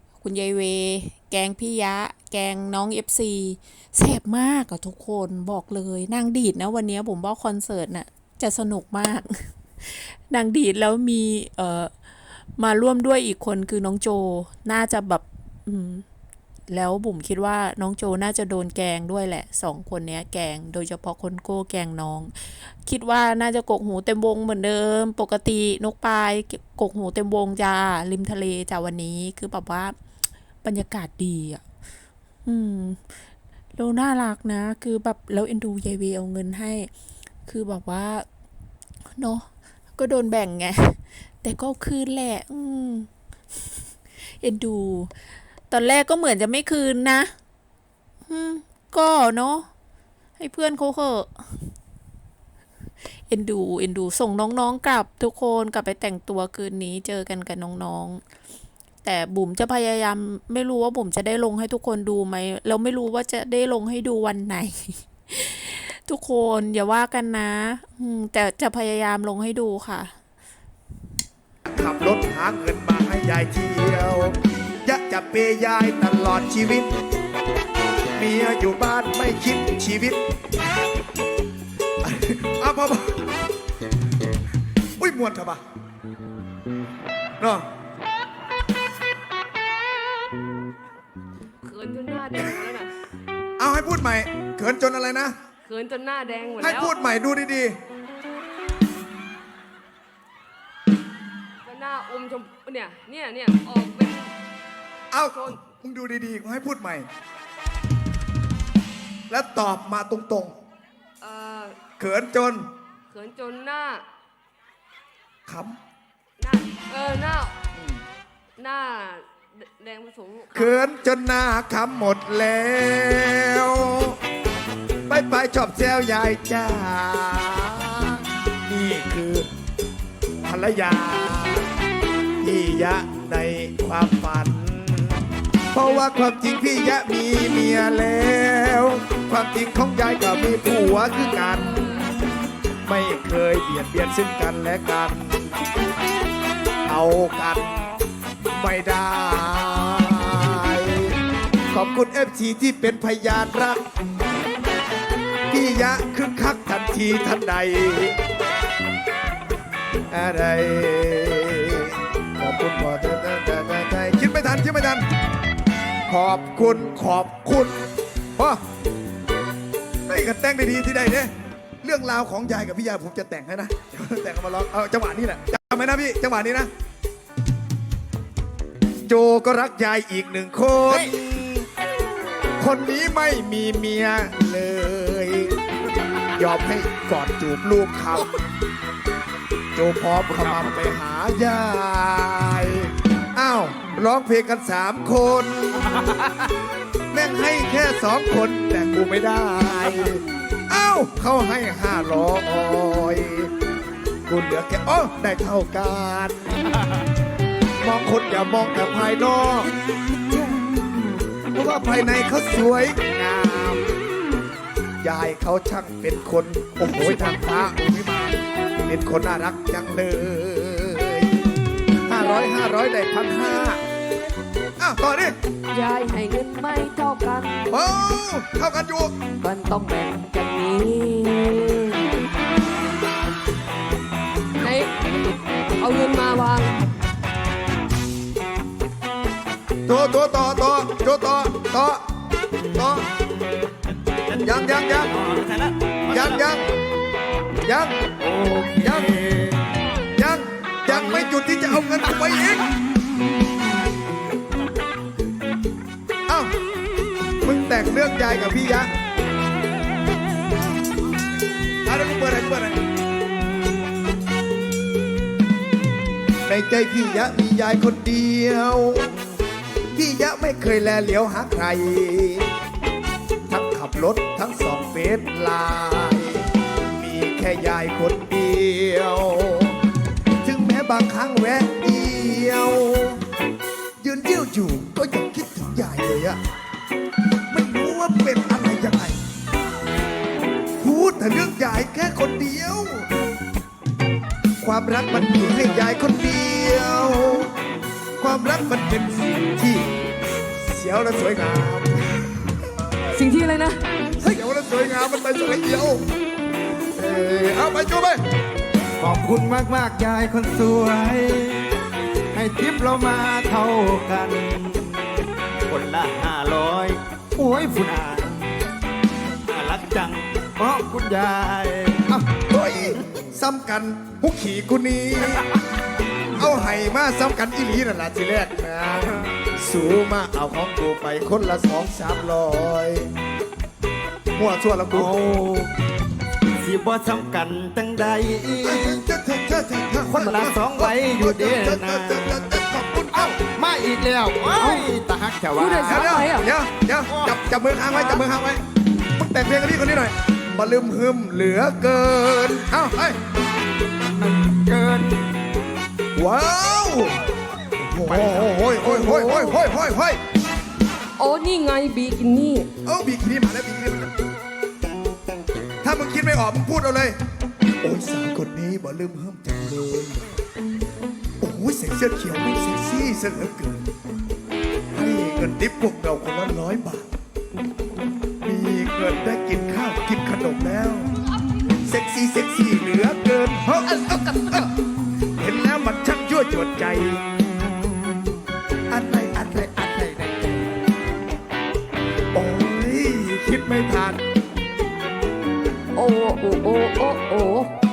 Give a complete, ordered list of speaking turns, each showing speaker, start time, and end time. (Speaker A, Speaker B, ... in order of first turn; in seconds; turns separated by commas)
Speaker A: 0.2-16.0, Speaker A: 16.7-29.9, Speaker A: 30.6-31.6, Speaker A: 32.4-33.0, Speaker A: 33.8-36.9, Speaker A: 37.5-38.3, Speaker A: 39.2-43.1, Speaker A: 44.2-45.1, Speaker A: 45.7-47.3, Speaker A: 48.3-49.7, Speaker A: 50.4-51.7, Speaker A: 53.3-58.2, Speaker A: 59.0-70.1, Speaker B: 71.7-76.9, Speaker B: 78.2-80.2, Speaker B: 82.0-83.2, Speaker B: 85.0-85.6, Speaker B: 87.4-87.7, Speaker C: 91.6-92.9, Speaker B: 93.6-95.3, Speaker C: 95.6-96.9, Speaker B: 96.6-97.8, Speaker C: 101.6-104.3, Speaker B: 105.1-107.1, Speaker C: 105.3-105.6, Speaker B: 109.3-110.5, Speaker C: 111.2-111.8, Speaker B: 112.0-112.7, Speaker C: 113.1-114.0, Speaker B: 115.5-115.8, Speaker C: 116.4-117.5, Speaker B: 117.7-118.0, Speaker C: 118.6-120.8, Speaker B: 120.5-124.2, Speaker B: 125.1-129.5, Speaker B: 130.4-131.7, Speaker B: 132.4-142.0, Speaker B: 142.9-145.6, Speaker B: 146.9-147.8, Speaker B: 148.5-151.2, Speaker B: 151.7-153.8, Speaker B: 155.5-158.2, Speaker B: 160.1-165.1, Speaker B: 166.1-167.8, Speaker B: 170.1-171.3, Speaker B: 171.8-176.7, Speaker B: 179.0-181.7, Speaker D: 180.9-181.2, Speaker B: 182.6-185.6, Speaker B: 186.4-188.3, Speaker B: 189.8-195.9, Speaker D: 190.4-190.8, Speaker B: 197.1-203.5, Speaker B: 204.3-206.5, Speaker B: 207.8-209.7, Speaker B: 211.5-213.9, Speaker B: 215.0-221.4, Speaker B: 222.1-223.8, Speaker C: 222.2-222.5, Speaker B: 224.8-225.4, Speaker C: 225.7-227.6, Speaker B: 227.7-229.1, Speaker C: 229.4-232.1, Speaker C: 234.6-234.9, Speaker C: 235.8-236.8, Speaker B: 239.9-242.0, Speaker B: 242.8-243.1, Speaker D: 244.3-246.5, Speaker B: 244.4-245.1, Speaker B: 246.1-246.7, Speaker B: 247.7-248.0, Speaker D: 248.2-249.7, Speaker B: 248.8-249.1, Speaker B: 250.2-252.7, Speaker D: 250.9-251.3, Speaker D: 252.0-252.6, Speaker B: 257.4-258.9, Speaker B: 261.8-262.8, Speaker B: 266.4-269.1, Speaker B: 269.9-272.5, Speaker B: 273.5-279.8, Speaker B: 280.4-283.2, Speaker B: 284.0-286.4, Speaker B: 287.5-289.2, Speaker B: 290.8-293.1, Speaker B: 294.6-297.5, Speaker B: 298.2-299.9, Speaker B: 300.6-302.5, Speaker C: 303.1-303.8, Speaker B: 304.2-306.0, Speaker D: 307.0-307.5, Speaker B: 307.3-308.2, Speaker D: 309.0-311.7, Speaker D: 312.3-315.1, Speaker D: 315.7-318.5, Speaker D: 319.4-322.4, Speaker B: 322.5-325.5, Speaker B: 326.3-333.1, Speaker B: 334.3-335.1, Speaker D: 334.9-335.7, Speaker D: 336.5-339.1, Speaker B: 338.6-343.4, Speaker D: 340.1-342.2, Speaker D: 343.1-346.2, Speaker C: 345.6-346.5, Speaker B: 345.9-348.6, Speaker D: 347.0-347.4, Speaker B: 349.1-353.2, Speaker D: 354.1-355.3, Speaker B: 356.1-357.2, Speaker B: 357.8-360.2, Speaker D: 358.0-358.5, Speaker C: 358.8-359.6, Speaker C: 361.2-362.7, Speaker B: 362.8-364.1, Speaker B: 365.8-367.1, Speaker B: 367.8-370.2, Speaker B: 371.4-373.9, Speaker B: 374.9-377.1, Speaker B: 378.4-381.1, Speaker B: 381.8-384.7, Speaker C: 383.9-384.7, Speaker B: 385.4-387.3, Speaker B: 388.9-389.6, Speaker D: 389.5-390.7, Speaker B: 392.3-394.2, Speaker C: 395.9-397.7